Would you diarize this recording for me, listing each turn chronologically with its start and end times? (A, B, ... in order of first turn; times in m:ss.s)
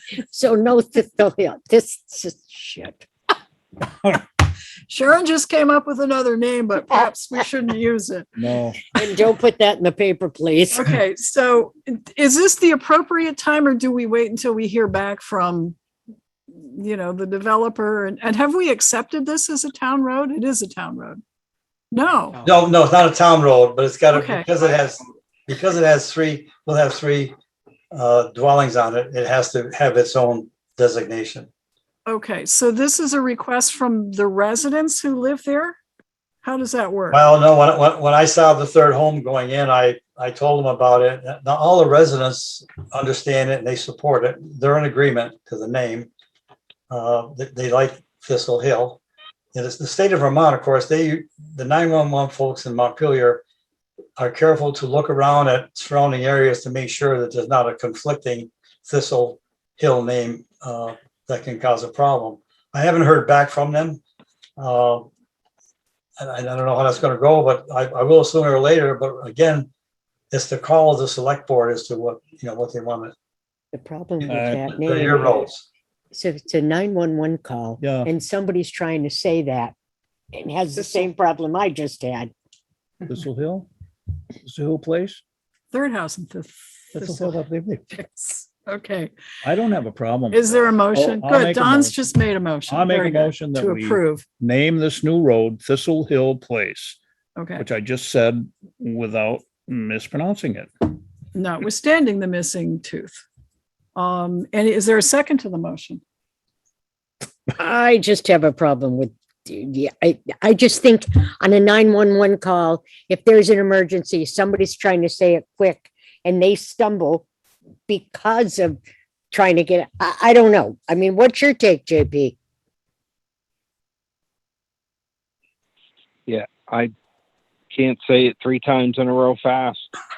0:00.2-0:03.1 A
0:04.9-0:08.3 B
0:08.4-0:08.8 C
0:09.0-0:10.9 A
0:10.7-0:15.8 B
0:16.5-0:21.2 B
0:21.9-0:22.4 B
0:22.4-0:27.4 D
0:24.1-0:24.5 B
0:27.9-0:31.5 D
0:32.1-0:35.8 B
0:36.4-0:37.2 B
0:37.1-0:46.1 D
0:46.9-0:49.0 D
0:49.5-0:53.4 D
0:54.2-1:04.0 D
1:04.6-1:05.1 D
1:06.2-1:09.7 D
1:10.3-1:13.1 D
1:13.7-1:15.4 A
1:14.3-1:14.7 C
1:14.8-1:15.6 D
1:16.1-1:19.7 A
1:17.8-1:18.1 C
1:20.3-1:22.3 A
1:23.1-1:23.7 C
1:24.4-1:25.2 C
1:25.7-1:29.1 B
1:26.9-1:27.9 C
1:29.4-1:32.0 C
1:30.3-1:34.2 B
1:32.7-1:37.0 C
1:37.4-1:37.7 B
1:37.6-1:40.7 C
1:41.3-1:43.2 B
1:44.0-1:46.0 B
1:47.5-1:57.3 A
1:57.9-1:58.8 A
1:59.3-2:02.4 A
2:06.3-2:06.9 E
2:07.7-2:09.9 E